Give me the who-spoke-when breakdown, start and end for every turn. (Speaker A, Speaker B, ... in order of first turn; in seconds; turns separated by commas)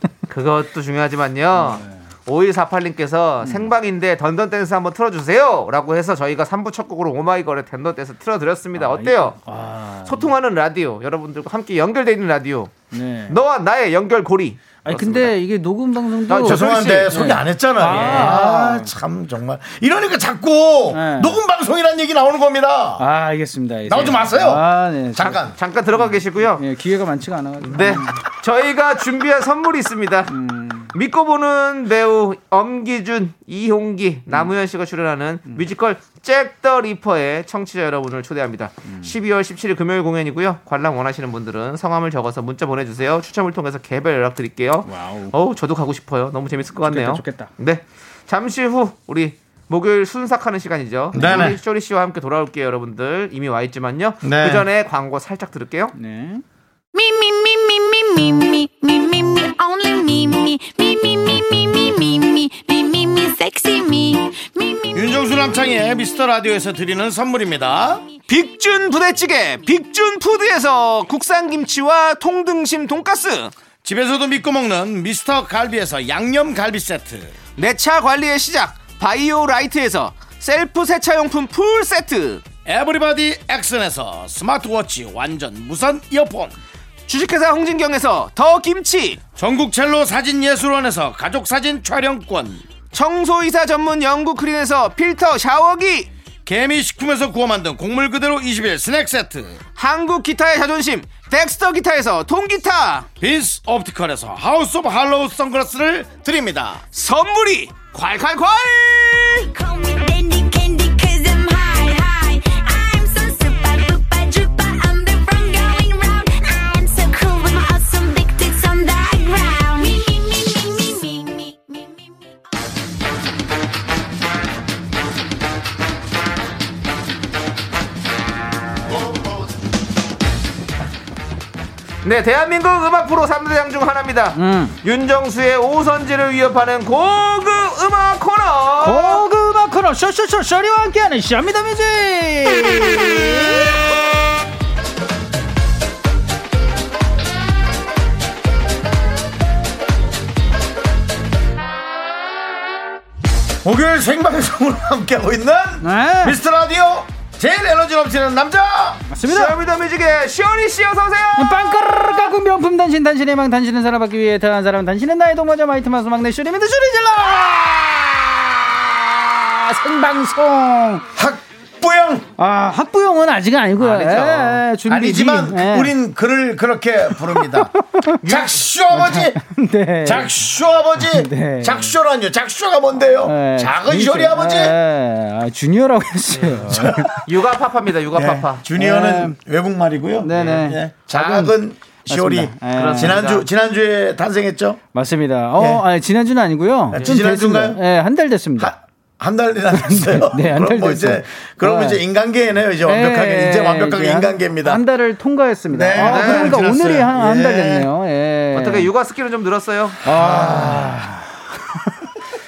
Speaker A: 0.3-9.4, Speaker B: 1.6-1.9, Speaker B: 8.8-10.3, Speaker A: 10.0-12.7, Speaker B: 12.9-13.4, Speaker A: 13.3-15.4, Speaker B: 14.8-18.9, Speaker A: 16.3-17.2, Speaker C: 16.4-23.1, Speaker A: 17.8-18.4, Speaker B: 20.9-21.4, Speaker B: 23.0-25.5, Speaker C: 23.9-25.6, Speaker A: 25.6-26.6, Speaker B: 26.0-28.2, Speaker A: 27.6-30.4, Speaker B: 30.3-30.9, Speaker A: 30.9-55.9, Speaker B: 44.9-45.3, Speaker B: 46.8-47.5, Speaker C: 51.1-51.6, Speaker C: 54.2-54.6, Speaker B: 56.0-56.4, Speaker D: 56.9-65.4, Speaker C: 64.9-68.0, Speaker A: 68.3-73.5, Speaker C: 73.8-77.3, Speaker A: 77.6-82.4, Speaker C: 82.6-86.5, Speaker A: 87.1-89.2, Speaker C: 89.4-92.6, Speaker A: 92.9-96.1, Speaker C: 96.5-99.6, Speaker A: 99.8-103.1, Speaker C: 103.2-106.8, Speaker A: 106.9-109.5, Speaker D: 109.3-122.4, Speaker A: 132.0-139.2, Speaker B: 134.4-134.8, Speaker B: 138.8-143.8, Speaker C: 153.6-159.1, Speaker B: 155.8-156.4, Speaker B: 159.1-159.6, Speaker A: 159.2-161.5, Speaker B: 161.4-171.0, Speaker C: 171.1-172.3, Speaker B: 172.4-175.9, Speaker A: 173.8-174.6, Speaker C: 174.9-179.4, Speaker B: 177.3-178.2, Speaker A: 178.2-178.6, Speaker B: 178.9-180.4, Speaker C: 180.1-184.8, Speaker B: 181.0-182.0, Speaker B: 183.2-187.2, Speaker A: 186.3-188.6, Speaker C: 186.7-187.2, Speaker C: 188.1-194.8, Speaker B: 188.8-189.4, Speaker B: 190.2-190.8, Speaker A: 190.3-191.5, Speaker B: 192.1-193.2, Speaker A: 192.7-193.5, Speaker B: 194.9-198.7, Speaker C: 195.6-195.8, Speaker C: 196.9-197.8, Speaker C: 198.6-204.8, Speaker B: 199.8-202.0, Speaker B: 202.8-208.9, Speaker C: 205.7-207.9, Speaker A: 206.0-206.6, Speaker A: 208.5-210.0, Speaker B: 210.1-212.1, Speaker C: 210.1-211.0